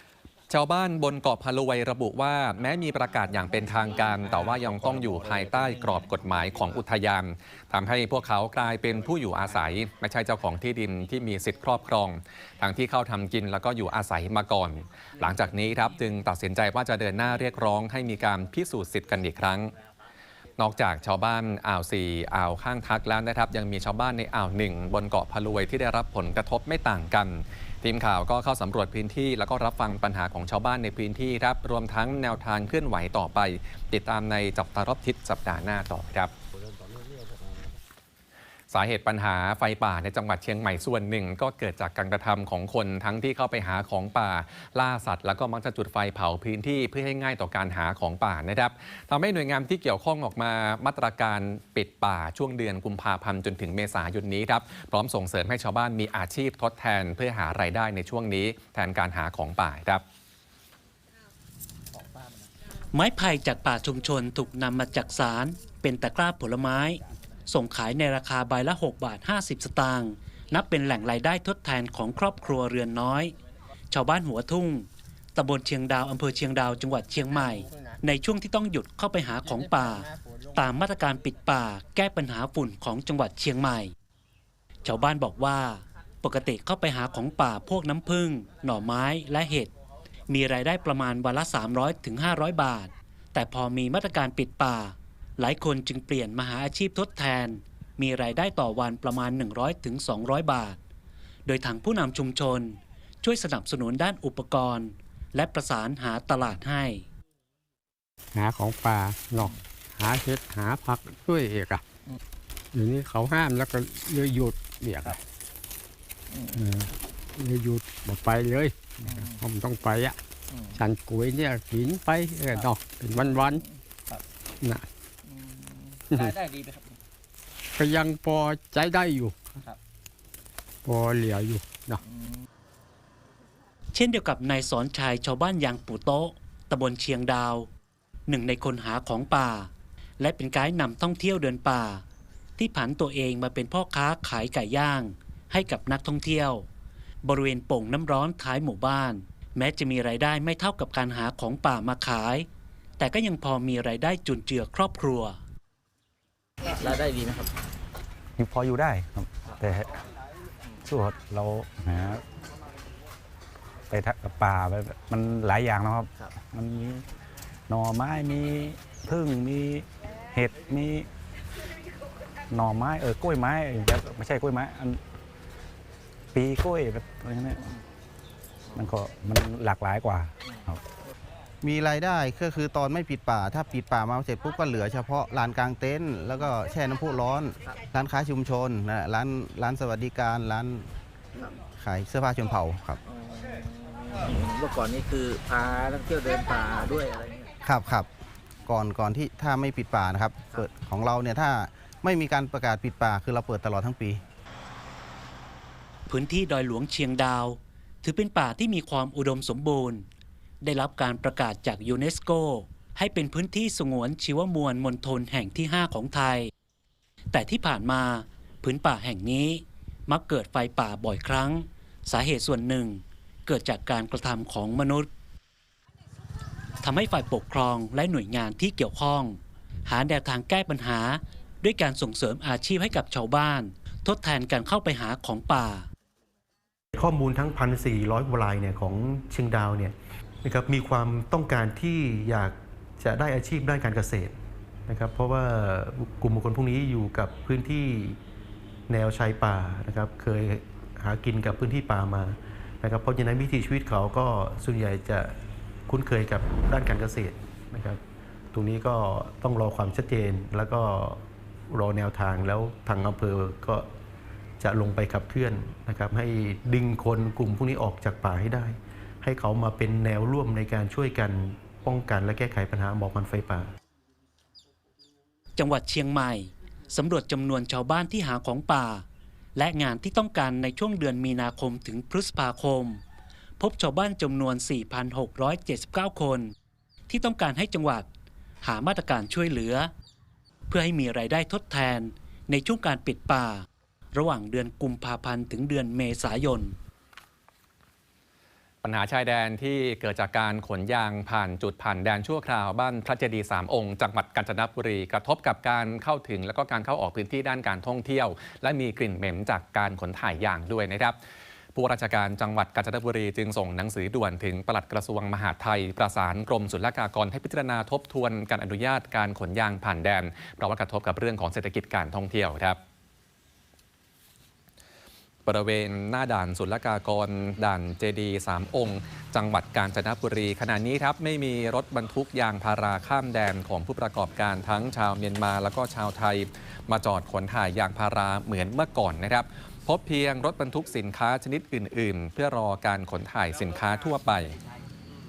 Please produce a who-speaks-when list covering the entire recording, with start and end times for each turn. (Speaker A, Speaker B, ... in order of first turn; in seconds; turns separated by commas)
Speaker A: 0.5-19.7, Speaker A: 20.6-36.3, Speaker A: 38.7-60.0, Speaker B: 62.9-73.3, Speaker B: 73.9-83.9, Speaker B: 84.8-89.7, Speaker B: 90.3-100.8, Speaker B: 101.4-107.0, Speaker C: 108.3-111.8, Speaker C: 112.7-115.2, Speaker C: 116.5-120.2, Speaker C: 120.7-123.6, Speaker C: 124.6-124.9, Speaker C: 127.8-129.4, Speaker C: 130.8-132.0, Speaker B: 133.9-137.7, Speaker B: 138.3-142.0, Speaker B: 142.6-146.7, Speaker B: 147.2-152.5, Speaker B: 153.0-155.4, Speaker D: 156.7-157.5, Speaker E: 158.4-159.9, Speaker E: 160.8-162.2, Speaker E: 163.9-167.0, Speaker E: 167.7-171.1, Speaker E: 172.5-175.0, Speaker E: 176.3-177.7, Speaker E: 178.7-180.8, Speaker F: 181.6-190.9, Speaker F: 191.8-193.0, Speaker D: 193.1-197.5, Speaker F: 197.6-198.1, Speaker F: 198.7-204.2, Speaker B: 206.1-210.1, Speaker B: 210.6-216.5, Speaker B: 217.3-225.1, Speaker B: 226.8-235.9, Speaker G: 236.9-244.3, Speaker G: 244.9-248.2, Speaker G: 248.9-255.3, Speaker G: 255.9-258.0, Speaker G: 258.5-263.9, Speaker G: 264.6-273.7, Speaker B: 275.6-283.0, Speaker B: 283.6-286.5, Speaker B: 287.1-288.1, Speaker B: 288.6-289.9, Speaker B: 290.7-296.8, Speaker A: 298.8-311.2, Speaker A: 311.7-322.8, Speaker A: 325.4-344.6